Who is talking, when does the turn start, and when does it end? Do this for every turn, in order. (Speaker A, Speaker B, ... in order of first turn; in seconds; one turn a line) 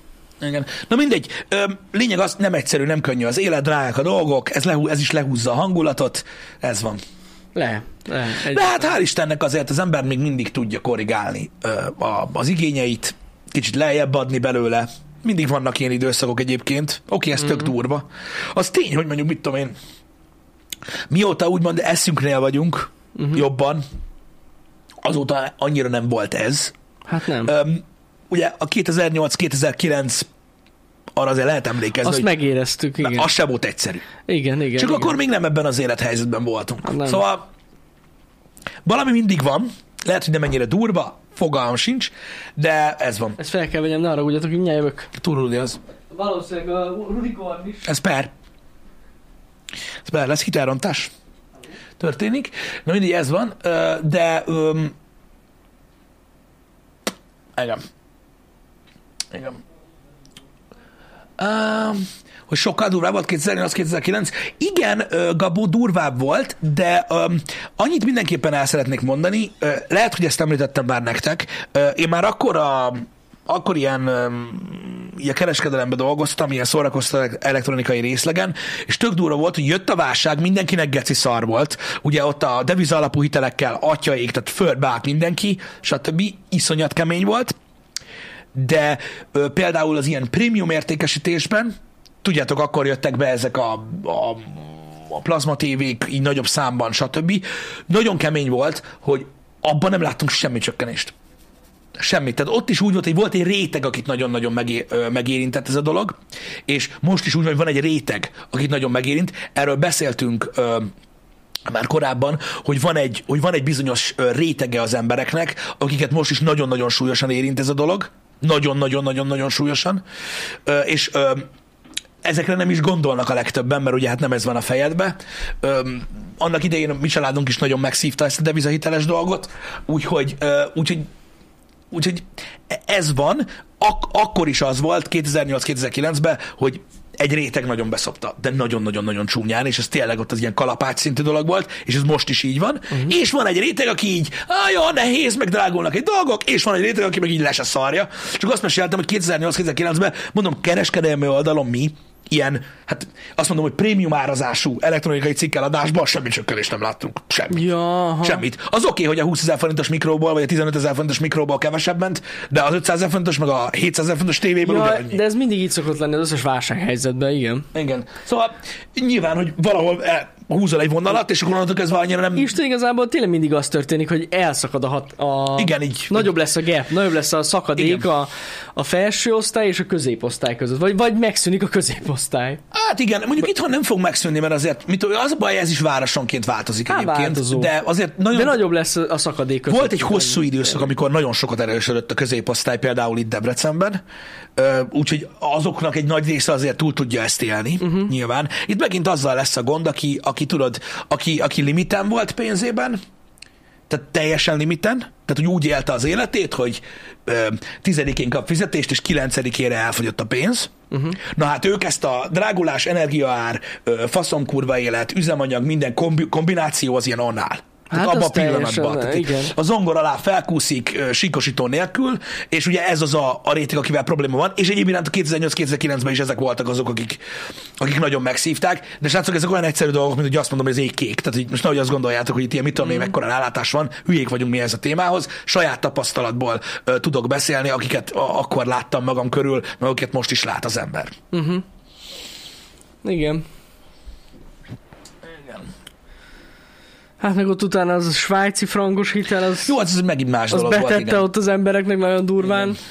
Speaker A: 0.4-7.0
Speaker B: 7.5-8.9
Speaker A: 8.4-19.8
Speaker A: 21.1-23.8
Speaker B: 23.1-23.4
Speaker A: 25.0-26.7
Speaker B: 27.1-27.5
Speaker A: 27.4-30.3
Speaker A: 31.2-32.3
Speaker B: 32.0-33.3
Speaker A: 33.0-34.1
Speaker B: 34.3-35.2
Speaker A: 34.8-37.5
Speaker B: 36.8-37.2
Speaker A: 38.9-43.4
Speaker B: 43.4-45.1
Speaker A: 45.2-45.8
Speaker B: 46.1-47.9
Speaker A: 47.9-48.3
Speaker A: 50.0-51.1
Speaker A: 52.0-54.9
Speaker A: 57.6-57.8
Speaker A: 59.3-59.6
Speaker A: 61.4-87.5
Speaker A: 88.5-101.1
Speaker A: 102.0-106.2
Speaker A: 106.7-110.9
Speaker A: 111.7-120.0
Speaker A: 120.7-121.5
Speaker A: 122.2-131.1
Speaker A: 131.9-157.7
Speaker B: 157.5-158.4
Speaker A: 158.2-165.2
Speaker B: 164.6-167.7
Speaker A: 167.7-172.5
Speaker B: 172.4-182.6
Speaker A: 175.6-176.3
Speaker A: 177.8-178.1
Speaker A: 182.7-188.6
Speaker B: 186.9-187.7
Speaker B: 188.3-190.7
Speaker A: 189.7-194.0
Speaker A: 194.6-203.0
Speaker B: 197.8-198.1
Speaker A: 203.9-227.2
Speaker B: 210.9-211.2
Speaker B: 217.9-219.5
Speaker A: 227.8-241.2
Speaker B: 232.8-233.1
Speaker B: 241.3-241.6
Speaker B: 243.0-243.4
Speaker A: 245.3-245.7
Speaker B: 247.2-249.7
Speaker A: 249.6-251.3
Speaker B: 250.5-252.8